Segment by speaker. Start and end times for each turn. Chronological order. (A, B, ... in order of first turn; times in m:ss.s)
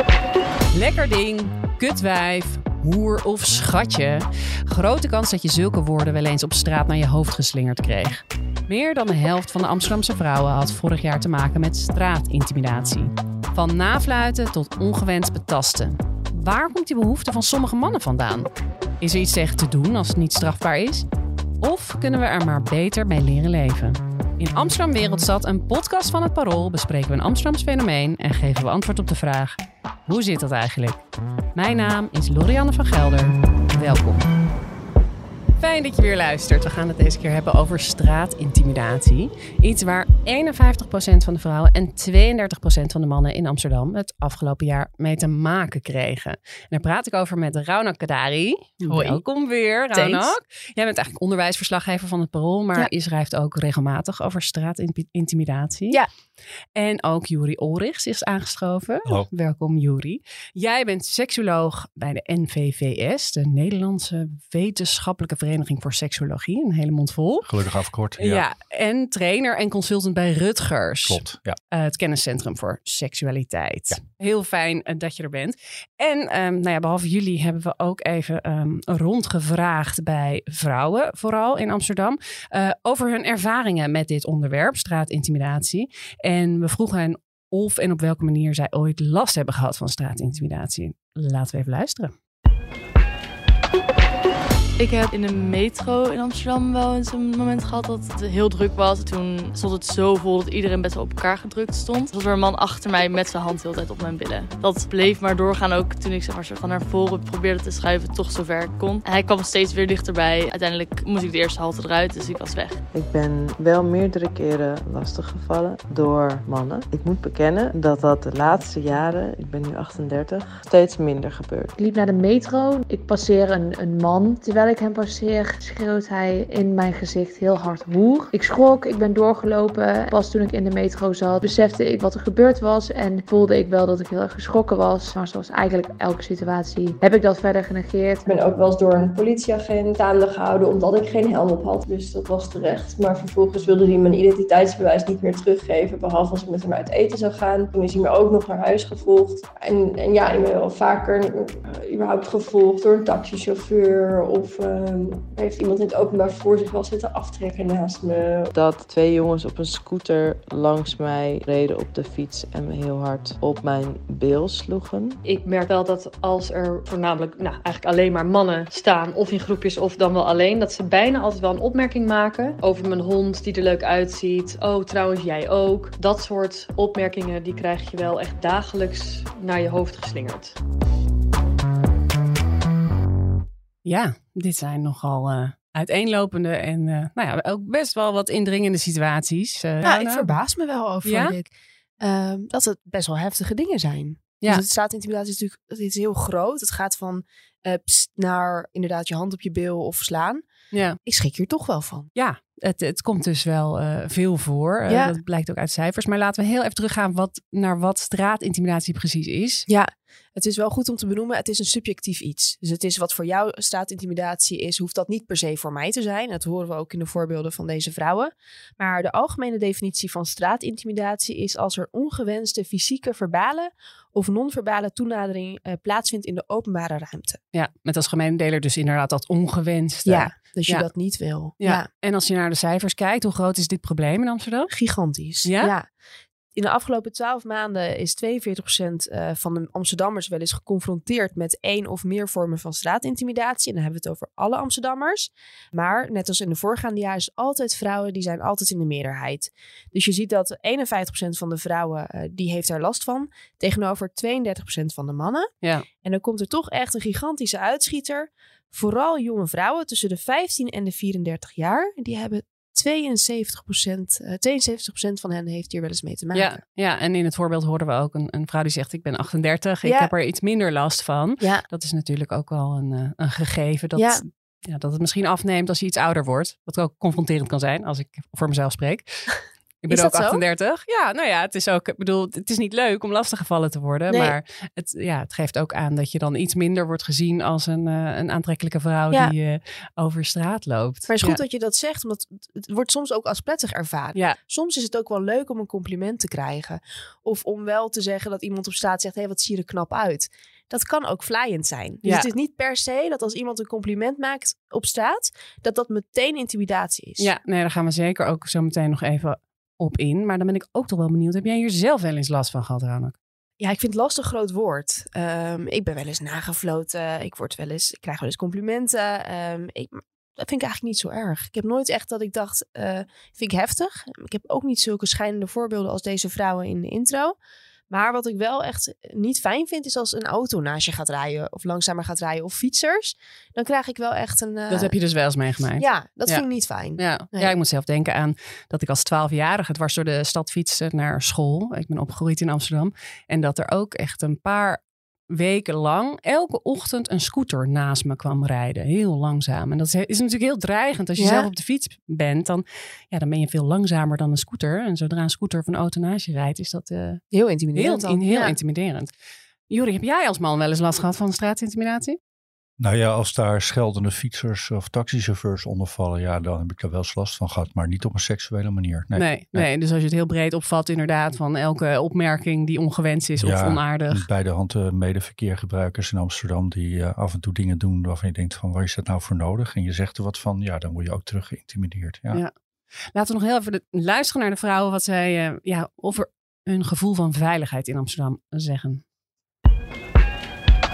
0:00.7-0:18.5 A
0:19.0-0:21.1 A
0:21.6-0:31.0 A
0:31.6-0:34.2 A
0:35.6-0:56.0 A
0:48.8-0:49.2 B
0:49.9-0:50.3 B
0:56.8-1:07.5 A
1:07.4-1:08.4 C
1:08.2-1:32.1 A
1:11.0-1:11.6 C
1:34.8-1:52.8 D
1:52.9-2:01.7 E
2:01.8-2:18.2 F
2:18.2-2:38.5 G
2:38.5-2:45.2 E
2:45.2-3:00.6 H
3:03.8-3:10.3 A
3:09.8-3:20.4 B
3:11.0-3:11.4 A
3:20.7-3:21.0 A
3:21.0-3:22.1 B
3:22.2-3:29.7 A
3:24.9-3:25.2 B
3:29.7-3:47.4 B
3:47.5-3:50.9 A
3:50.1-3:51.8 B
3:51.6-3:54.7 A
3:54.7-3:55.9 B
3:55.4-3:55.7 A
3:56.6-4:15.5 B
4:16.0-4:26.6 B
4:26.3-4:39.3 A
4:29.8-4:30.1 B
4:34.0-4:34.2 B
4:39.8-4:51.4 A
4:39.9-4:40.4 B
4:44.1-4:44.4 B
4:51.1-5:07.3 B
5:02.0-5:02.3 A
5:07.2-5:13.2 A
5:13.6-5:27.4 B
5:27.9-5:35.0 B
5:34.7-5:36.4 A
5:35.8-5:37.5 B
5:37.0-5:57.2 A
5:51.2-5:51.5 B
5:57.3-5:58.5 B
5:57.8-5:59.1 A
5:59.7-6:02.2 A
6:02.8-6:09.7 C
6:09.2-6:14.3 A
6:13.4-6:22.4 C
6:23.1-6:29.0 A